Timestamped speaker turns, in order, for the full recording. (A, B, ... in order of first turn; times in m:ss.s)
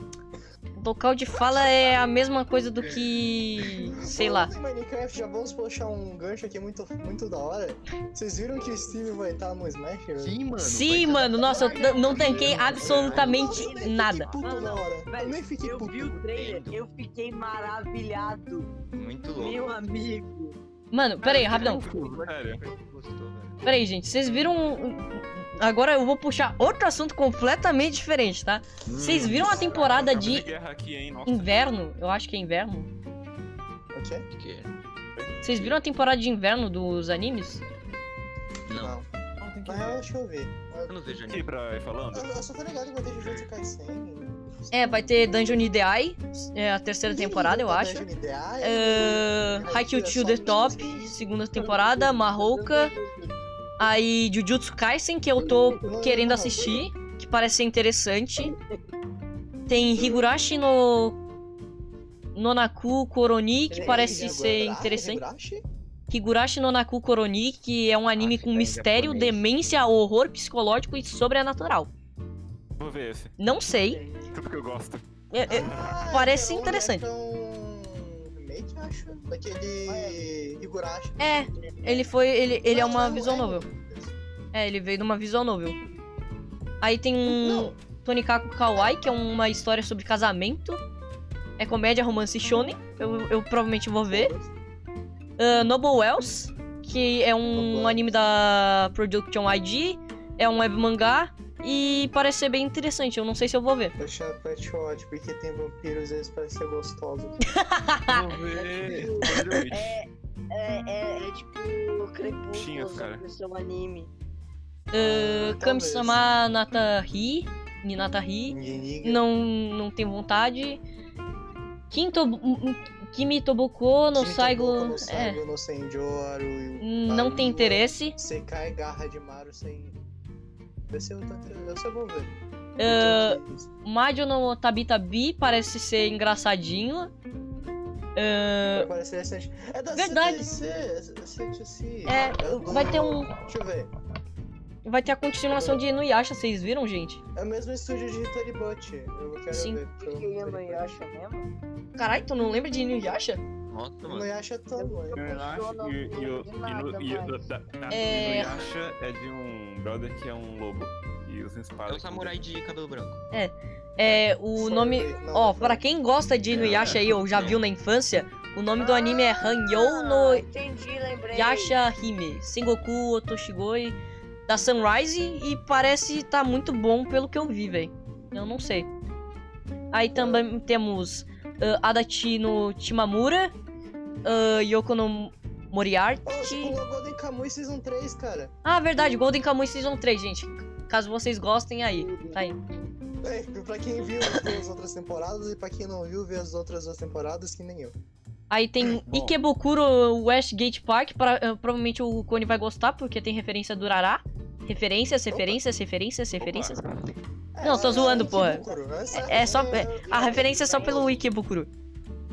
0:00.8-0:04.5 A
0:01.4-0:01.9 B
0:03.6-0:04.0 C
0:03.9-0:10.4 B
0:08.5-0:08.9 C
0:10.2-0:13.7 C
0:10.6-0:14.3 A
0:11.4-0:12.4 D
0:12.5-0:13.2 E
0:12.5-0:16.2 B
0:13.4-0:13.9 D
0:14.4-0:18.7 D
0:16.2-0:16.8 C
0:18.9-0:19.8 C
0:19.4-0:20.6 D
0:20.9-0:21.8 A
0:21.2-0:23.6 C
0:21.4-0:22.6 E
0:23.6-0:30.5 A
0:28.9-0:29.7 C
0:29.2-0:31.6 E
0:29.4-0:30.2 B
0:31.3-0:32.9 A
0:33.9-0:34.2 B
0:34.3-0:34.7 C
0:35.4-0:37.6 A
0:38.7-0:39.0 C
0:38.8-0:39.1 B
0:39.4-0:40.1 E
0:39.6-0:40.9 B
0:40.9-0:41.5 C
0:41.3-0:42.3 E
0:42.1-0:45.7 B
0:44.7-0:48.1 A
0:47.1-0:51.1 B
0:48.6-0:52.9 A
0:51.6-0:53.3 D
0:53.8-0:58.6 A
0:55.4-0:56.0 D
0:55.8-0:56.9 B
0:59.7-1:01.2 A
1:00.0-1:00.3 B
1:02.4-1:05.2 A
1:03.7-1:05.6 B
1:06.1-1:11.9 A
1:08.2-1:09.4 C
1:12.8-1:13.4 E
1:13.4-1:14.0 A
1:13.9-1:14.4 B
1:14.3-1:16.0 E
1:15.3-1:17.1 A
1:15.5-1:21.3 B
1:19.9-1:20.3 D
1:21.2-1:23.6 A
1:21.4-1:22.1 D
1:22.7-1:24.2 B
1:24.5-1:25.8 A
1:26.8-1:30.8 A
1:27.2-1:27.8 B
1:31.6-1:34.3 A
1:34.1-1:34.5 B
1:35.4-1:44.0 A
1:37.5-1:38.2 B
1:44.0-1:47.4 B
1:47.4-1:48.3 A
1:48.1-1:50.0 E
1:48.6-1:54.1 D
1:52.5-1:53.2 E
1:54.9-2:00.8 A
1:54.9-1:56.2 B
1:58.5-1:59.2 B
2:01.9-2:05.4 A
2:04.2-2:10.0 B
2:06.8-2:08.2 A
2:10.9-2:13.7 B
2:12.8-2:17.1 A
2:18.2-2:18.9 A
2:18.7-2:23.9 B
2:19.9-2:20.5 A
2:22.1-2:23.3 A
2:24.8-2:27.2 A
2:25.5-2:25.8 B
2:27.4-2:30.9 B
2:29.5-2:29.8 A
2:30.0-2:31.5 D
2:32.0-2:33.4 A
2:33.7-2:34.3 C
2:34.0-2:35.2 B
2:34.7-2:37.4 D
2:35.2-2:42.4 E
2:37.9-2:38.6 A
2:41.9-2:43.2 C
2:43.3-2:50.4 A
2:44.6-2:45.8 B
2:46.5-2:47.6 C
2:48.8-2:51.8 D
2:51.3-2:54.0 A
2:54.5-2:58.9 A
2:59.9-3:03.5 A
3:00.2-3:00.5 B
3:04.2-3:06.8 A
3:06.3-3:08.5 B
3:08.6-3:12.6 A
3:11.8-3:12.9 D
3:13.2-3:18.0 B
3:18.5-3:26.8 A
3:19.1-3:19.4 E
3:25.3-3:25.6 B
3:26.4-3:26.9 E
3:27.6-3:31.2 B
3:27.6-3:28.6 A
3:27.8-3:31.2 D
3:29.2-3:31.7 A